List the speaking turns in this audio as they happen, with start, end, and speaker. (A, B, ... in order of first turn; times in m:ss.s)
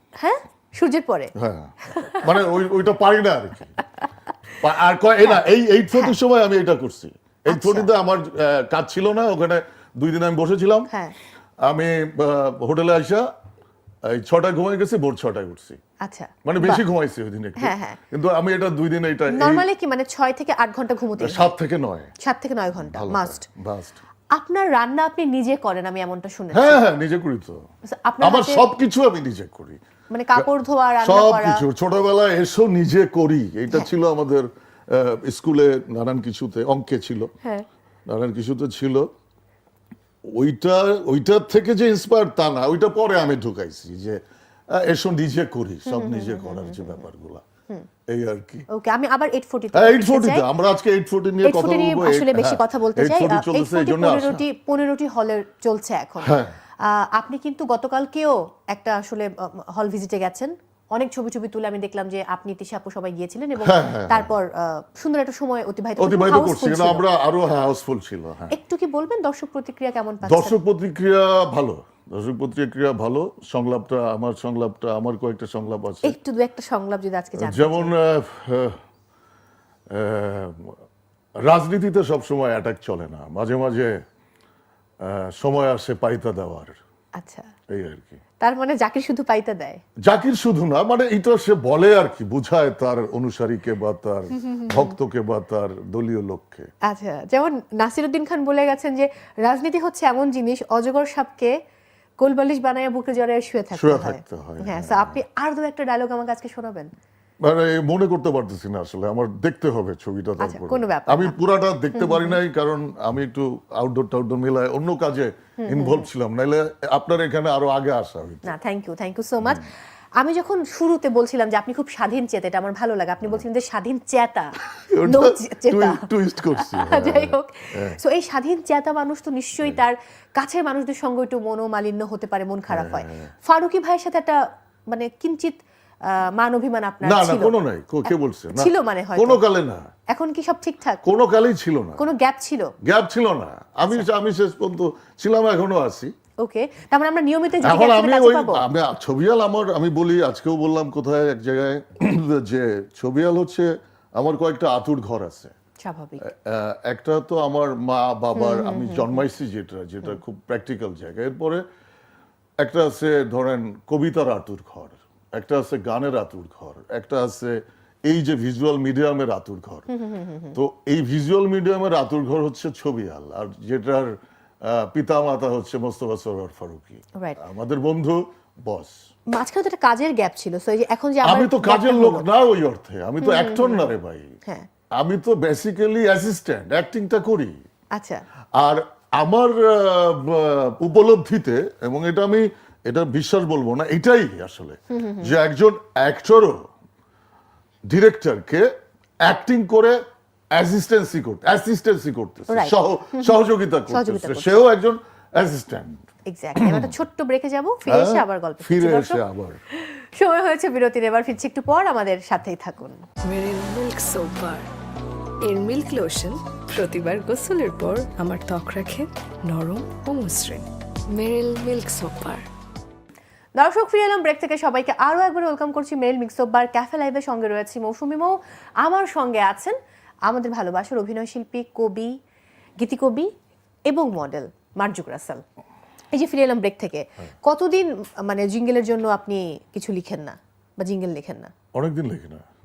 0:00.2-0:01.3 A
0:01.4-0:03.8 B
0:01.8-0:02.3 A
0:04.6-0:10.9 B
0:07.5-0:07.9 A
0:10.9-0:11.2 A
0:11.6-0:13.2 B
0:14.0-0:15.8 B
0:16.0-0:16.8 A
0:16.4-0:19.6 B
0:17.6-0:18.0 A
0:19.3-0:21.4 A
0:21.2-0:22.1 B
0:22.2-0:23.4 A
0:22.8-0:24.0 B
0:24.3-0:26.8 A
0:26.5-0:27.6 B
0:27.9-0:28.7 A
0:28.2-0:29.8 B
0:30.1-0:31.6 A
0:31.0-0:37.3 B
0:38.1-0:39.1 B
0:40.3-0:47.4 B
0:45.8-0:47.0 A
0:48.1-0:48.7 B
0:48.7-0:50.4 A
0:49.7-0:54.4 B
0:51.4-1:07.0 A
0:56.2-0:56.5 B
1:03.6-1:04.3 B
1:06.0-1:08.6 B
1:08.5-1:10.6 A
1:10.2-1:16.2 B
1:16.0-1:17.9 A
1:17.4-1:18.8 B
1:19.9-1:20.8 B
1:21.4-1:24.0 B
1:25.0-1:26.8 B
1:27.2-1:27.5 A
1:27.7-1:28.2 B
1:28.4-1:29.8 A
1:30.0-1:36.7 B
1:34.4-1:34.9 A
1:36.8-1:41.5 A
1:42.2-1:46.9 A
1:43.7-1:45.2 B
1:47.4-1:58.5 B
1:50.4-1:51.4 A
1:51.9-1:52.4 A
1:55.6-1:56.1 A
1:58.4-2:04.5 A
2:04.7-2:08.0 B
2:05.0-2:17.5 A
2:12.7-2:13.3 B
2:17.0-2:19.9 B
2:18.0-2:19.4 A
2:20.1-2:21.0 A
2:21.0-2:22.0 B
2:22.0-2:22.7 A
2:22.8-2:26.1 B
2:26.4-2:28.6 A
2:27.6-2:35.5 B
2:35.8-2:36.2 A
2:36.2-2:41.6 B
2:38.4-2:39.2 A
2:42.6-2:49.9 B
2:49.9-2:50.6 A
2:50.5-2:58.9 B
2:59.3-3:02.2 A
3:01.2-3:04.3 B
3:03.2-3:03.9 A
3:05.0-3:07.6 B
3:07.9-3:08.2 A
3:08.6-3:16.6 B
3:14.9-3:15.3 A
3:17.9-3:18.7 B
3:19.2-3:20.0 B
3:20.5-3:26.0 B
3:22.5-3:23.4 A
3:23.9-3:24.6 A
3:26.3-3:29.2 A
3:26.6-3:26.9 B
3:27.8-3:29.6 B
3:30.0-3:33.0 A
3:33.2-3:34.7 C
3:35.4-3:42.4 C
3:43.6-3:52.1 A
3:52.8-3:53.3 A
3:53.9-3:55.4 A
3:56.1-4:01.5 A
4:01.7-4:02.4 B